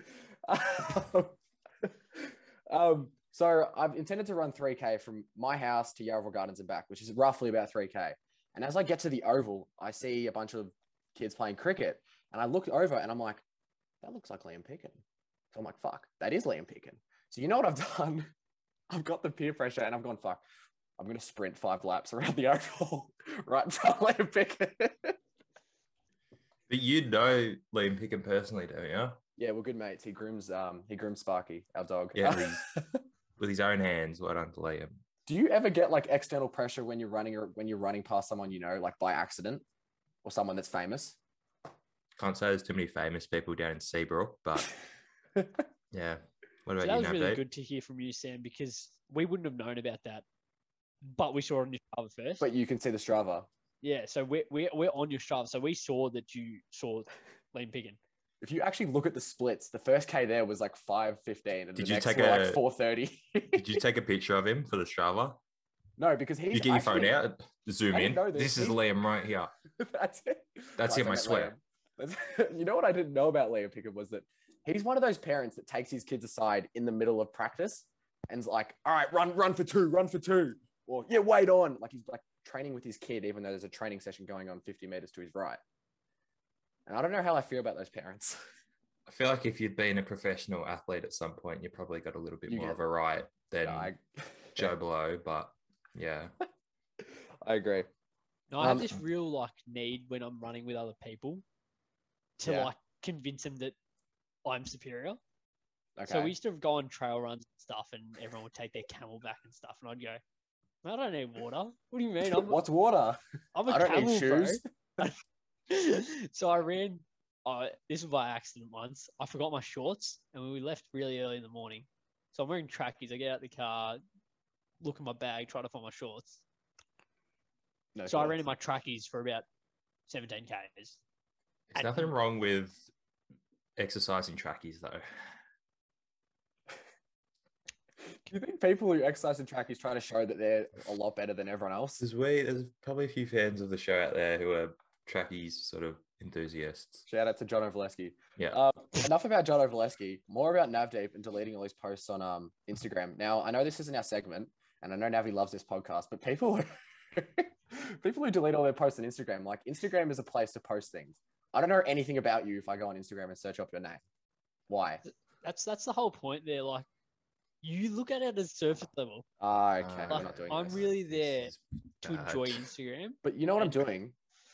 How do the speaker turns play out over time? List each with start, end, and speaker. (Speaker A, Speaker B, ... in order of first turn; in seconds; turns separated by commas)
Speaker A: 0.5-13.4, Speaker A: 14.0-15.0, Speaker A: 15.5-18.3, Speaker A: 18.9-20.4, Speaker A: 21.0-25.2, Speaker B: 26.7-29.2, Speaker A: 29.4-33.0, Speaker B: 32.1-32.6, Speaker B: 33.4-35.0, Speaker A: 35.3-39.6, Speaker A: 40.2-41.2, Speaker B: 42.2-44.7, Speaker B: 45.9-47.4, Speaker C: 46.8-50.2, Speaker C: 51.0-52.5, Speaker A: 52.4-53.5, Speaker C: 53.8-58.0, Speaker A: 58.4-63.8, Speaker B: 61.8-62.6, Speaker B: 63.5-65.4, Speaker A: 66.0-67.2, Speaker B: 66.5-69.5, Speaker A: 67.9-68.8, Speaker A: 69.8-85.6, Speaker B: 70.8-71.5, Speaker A: 86.9-88.4, Speaker B: 89.1-93.9, Speaker A: 92.5-92.8, Speaker A: 93.6-94.7, Speaker B: 94.6-96.3, Speaker A: 97.0-97.9, Speaker C: 98.5-101.4, Speaker A: 98.6-98.9, Speaker C: 102.4-103.8, Speaker A: 102.4-102.7, Speaker C: 104.5-105.2, Speaker A: 106.0-106.3, Speaker C: 106.1-110.2, Speaker C: 110.8-112.6, Speaker A: 112.3-114.6, Speaker C: 113.5-115.2, Speaker C: 115.7-124.0, Speaker C: 124.8-126.4, Speaker A: 128.0-128.4, Speaker C: 128.1-129.4, Speaker C: 130.1-131.0, Speaker B: 131.7-132.8, Speaker C: 131.8-132.1, Speaker B: 133.8-135.0, Speaker A: 138.3-142.0, Speaker B: 142.0-147.0, Speaker A: 147.1-164.0, Speaker A: 164.7-165.0, Speaker C: 165.1-166.9, Speaker C: 167.6-169.3, Speaker A: 169.4-170.8, Speaker B: 169.8-172.6, Speaker C: 170.1-173.9, Speaker A: 173.2-174.2